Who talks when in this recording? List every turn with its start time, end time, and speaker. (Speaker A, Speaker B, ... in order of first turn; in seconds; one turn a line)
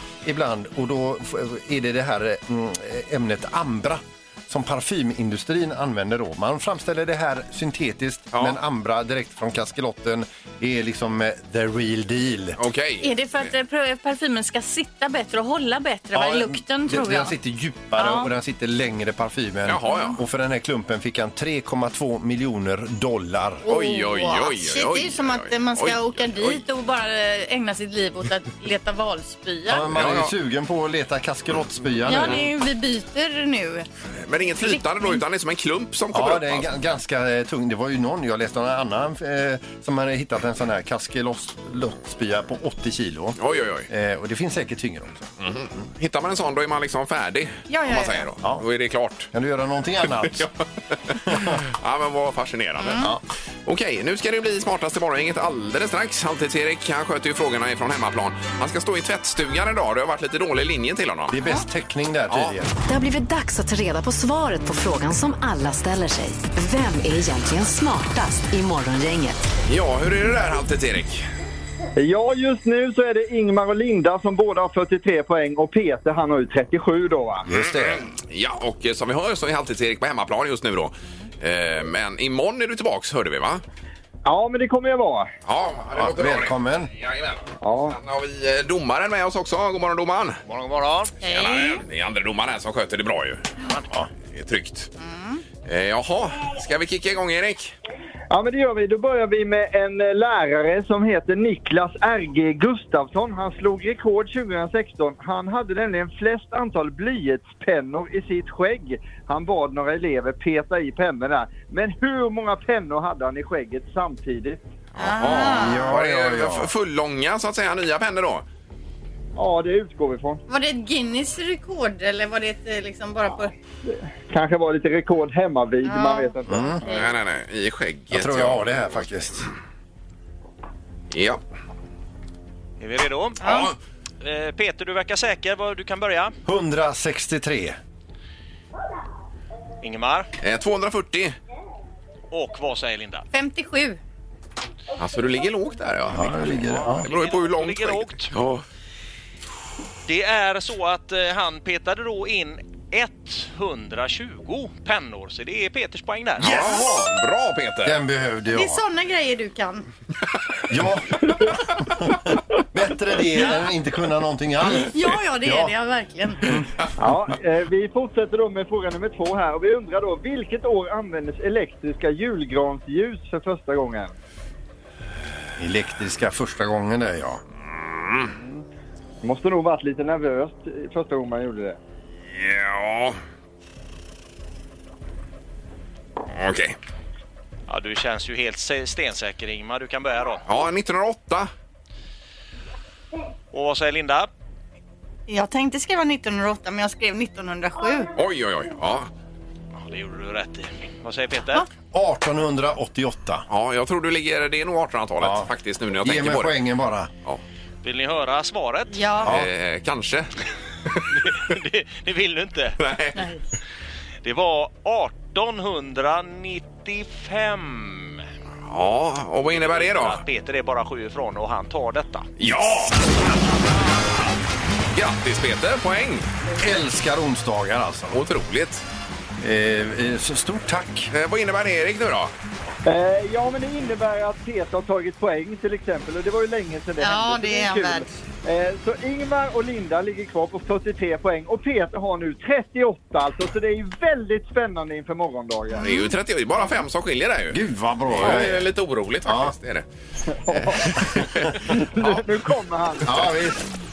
Speaker A: 0.2-12.6
Speaker B: 8.3-8.6
Speaker B: 12.6-13.1
Speaker C: 13.0-17.3
Speaker A: 16.1-23.6
Speaker C: 18.0-18.3
Speaker B: 19.7-20.2
Speaker C: 23.7-29.9
Speaker B: 23.7-26.6
Speaker A: 29.7-32.5
Speaker B: 29.9-30.3
Speaker C: 32.0-33.9
Speaker B: 34.2-36.7
Speaker C: 34.6-35.2
Speaker A: 36.1-43.4
Speaker B: 43.4-43.9
Speaker A: 43.9-45.3
Speaker B: 45.4-49.3
Speaker C: 47.7-48.3
Speaker A: 49.3-50.5
Speaker B: 50.2-50.5
Speaker B: 51.1-61.4
Speaker A: 51.3-51.6
Speaker C: 52.8-53.1
Speaker A: 61.3-62.7
Speaker B: 62.3-62.6
Speaker D: 62.9-69.4
Speaker B: 69.7-71.3
Speaker E: 72.0-77.5
Speaker A: 77.5-78.1
Speaker B: 77.5-83.6
Speaker E: 84.2-85.3
Speaker B: 85.5-90.4
Speaker A: 86.0-86.9
Speaker E: 87.6-88.0
Speaker F: 90.5-91.1
Speaker C: 91.2-91.8
Speaker B: 91.3-93.5
Speaker B: 94.3-94.9
Speaker C: 95.0-95.4
Speaker B: 95.7-97.8
Speaker E: 98.3-114.6
Speaker B: 115.0-118.5
Speaker C: 115.0-115.9
Speaker A: 115.3-116.7
Speaker E: 119.4-120.4
Speaker C: 120.5-123.5
Speaker E: 123.9-126.8
Speaker C: 125.8-127.1
Speaker A: 126.5-126.8
Speaker B: 126.9-129.0
Speaker A: 128.1-129.5
Speaker B: 131.1-131.4
Speaker F: 132.8-133.4
Speaker C: 133.4-133.7
Speaker B: 133.4-133.7
Speaker F: 134.2-136.3
Speaker A: 136.5-137.8
Speaker F: 139.8-140.3
Speaker B: 140.4-141.3
Speaker F: 142.3-143.3
Speaker C: 143.3-144.0
Speaker B: 145.0-148.6
Speaker A: 146.1-147.1
Speaker F: 147.0-148.3
Speaker F: 150.1-156.7
Speaker B: 156.4-158.0
Speaker A: 157.8-158.8
Speaker C: 158.5-159.9
Speaker A: 160.7-162.1
Speaker A: 162.6-165.7
Speaker C: 164.8-166.5
Speaker E: 167.0-174.1
Speaker A: 175.6-177.4
Speaker B: 177.7-178.3
Speaker E: 179.2-181.8
Speaker B: 182.3-183.2
Speaker B: 186.3-186.8
Speaker F: 187.7-190.4
Speaker B: 190.5-191.5
Speaker F: 193.5-194.3
Speaker C: 195.3-198.1
Speaker B: 198.2-199.1
Speaker F: 199.8-201.7
Speaker A: 201.9-203.5
Speaker B: 203.5-206.6
Speaker A: 205.2-205.5
Speaker A: 206.0-207.1
Speaker F: 207.8-209.1
Speaker C: 208.9-209.3
Speaker B: 209.2-210.3
Speaker F: 211.1-212.8
Speaker B: 212.8-213.2
Speaker F: 214.2-218.2
Speaker B: 218.7-220.2
Speaker F: 219.5-222.3
Speaker B: 222.4-223.0
Speaker B: 224.9-226.3
Speaker A: 226.6-228.2
Speaker B: 228.1-228.8
Speaker A: 229.4-231.1
Speaker B: 231.1-232.3
Speaker E: 232.9-245.8
Speaker C: 237.0-238.1
Speaker C: 245.8-246.1
Speaker B: 245.8-247.6
Speaker A: 247.5-248.7
Speaker B: 248.1-249.9
Speaker A: 249.2-249.6
Speaker E: 250.5-251.0
Speaker B: 250.5-251.7
Speaker E: 251.7-253.2
Speaker A: 253.1-253.6